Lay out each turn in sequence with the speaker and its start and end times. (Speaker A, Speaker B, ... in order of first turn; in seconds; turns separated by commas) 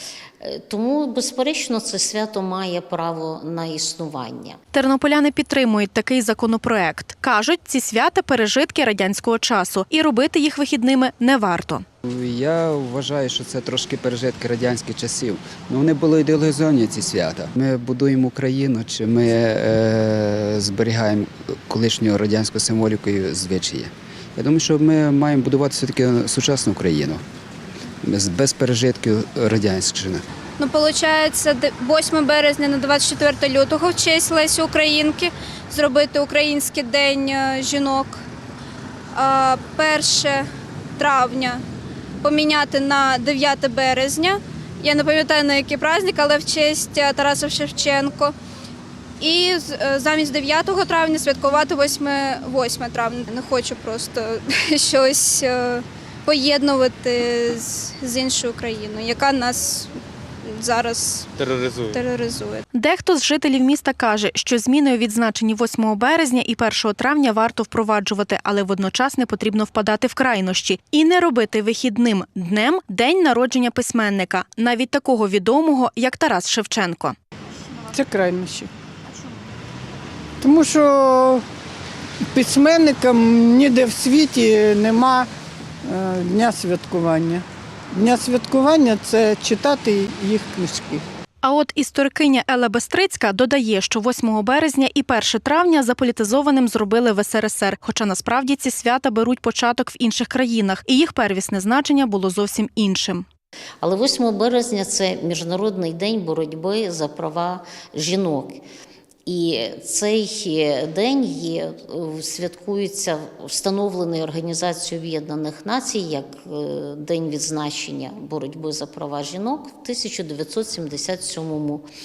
Speaker A: 0.4-4.6, Speaker B: 4.7-11.8, Speaker C: 12.1-27.2, Speaker C: 28.0-30.2, Speaker D: 30.6-38.2, Speaker D: 39.1-41.6, Speaker D: 42.2-48.3, Speaker D: 49.2-59.9, Speaker D: 60.5-62.6, Speaker B: 62.7-77.2, Speaker E: 77.9-78.7, Speaker E: 80.4-81.4, Speaker E: 82.3-85.3, Speaker E: 85.9-91.0, Speaker B: 91.4-103.2, Speaker A: 103.8-108.6, Speaker A: 109.3-121.9